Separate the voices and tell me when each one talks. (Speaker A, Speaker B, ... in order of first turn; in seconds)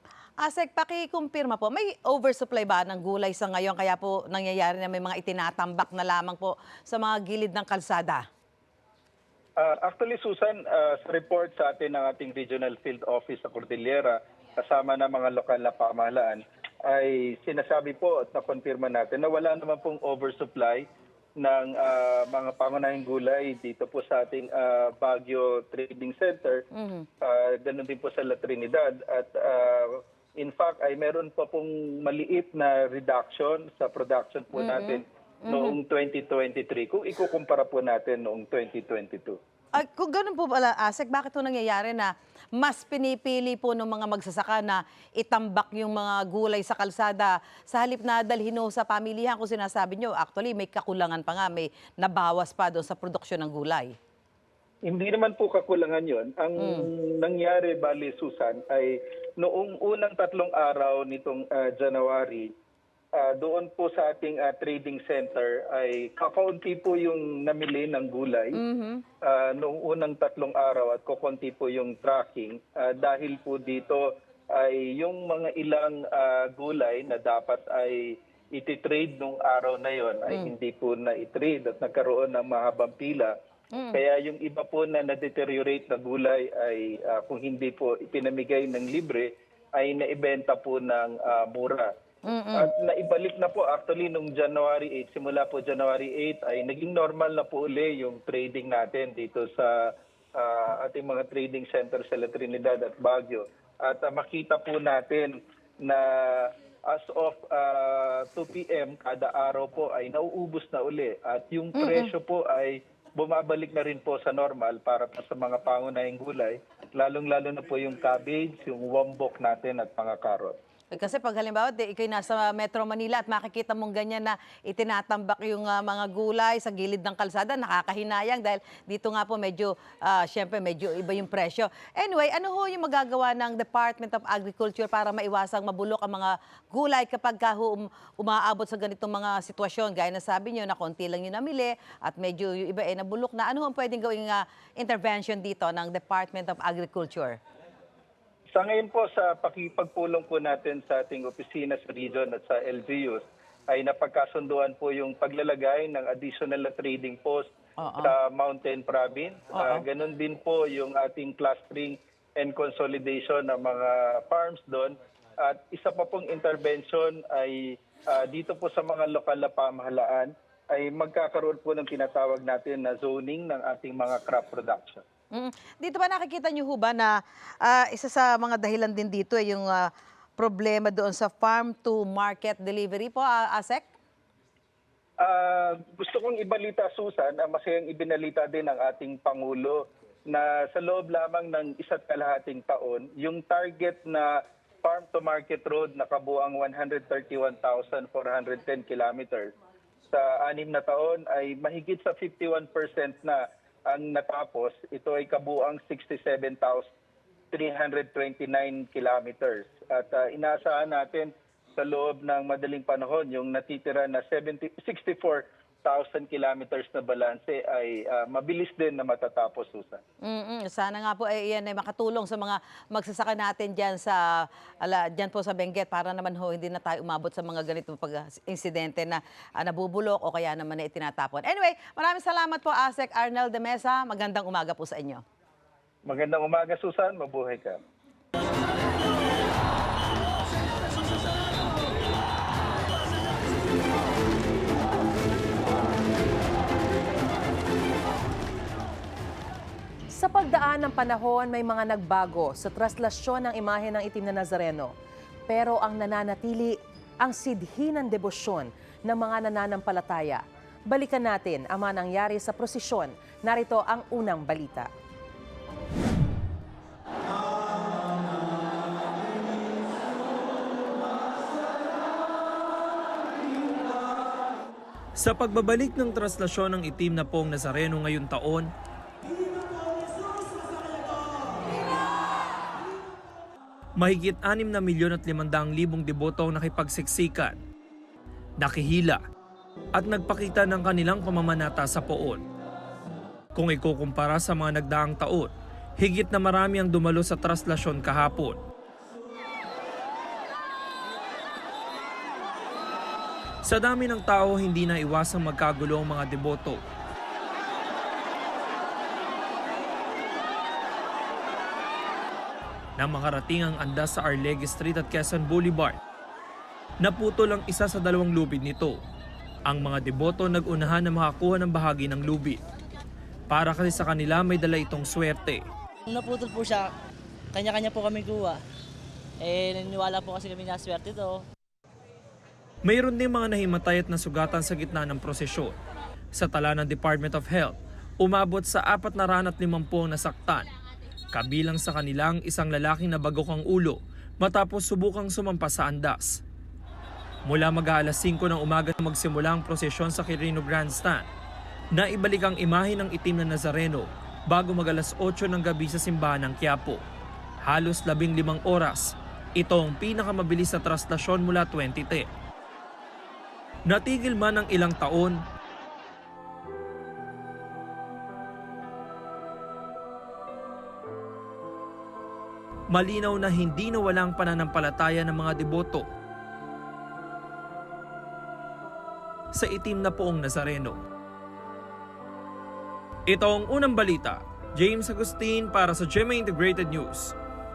Speaker A: 0.4-8.2, 26.7-27.1, 34.5-35.8, 39.8-54.0, 56.6-56.9, 68.5-69.0, 83.7-84.0, 92.3-92.7, 111.8-112.1, 120.9-147.4, 157.8-158.1, 159.6-159.8, 175.3-183.9, 220.2-235.2
Speaker B: 9.6-20.9, 21.4-26.6, 27.2-39.4, 54.9-62.5, 63.1-68.6, 69.2-83.4, 83.9-91.9, 92.5-120.6, 148.5-157.5, 158.0-175.0, 185.2-199.5, 200.1-206.9, 207.5-220.0, 236.1-237.8
Speaker C: 250.1-254.9, 255.5-264.9
Speaker D: 275.2-278.7, 284.0-287.6, 288.6-289.2, 289.9-292.4, 293.6-298.6, 303.6-306.8, 313.0-316.0, 317.0-319.0, 319.7-322.6, 323.5-325.6, 332.9-335.8, 336.4-340.7, 341.3-346.4, 347.5-351.3, 351.9-357.0, 357.6-362.3, 363.9-365.4, 372.9-376.1, 379.6-381.0, 383.3-387.3
Speaker E: 326.1-326.9, 327.6-328.6, 329.4-331.4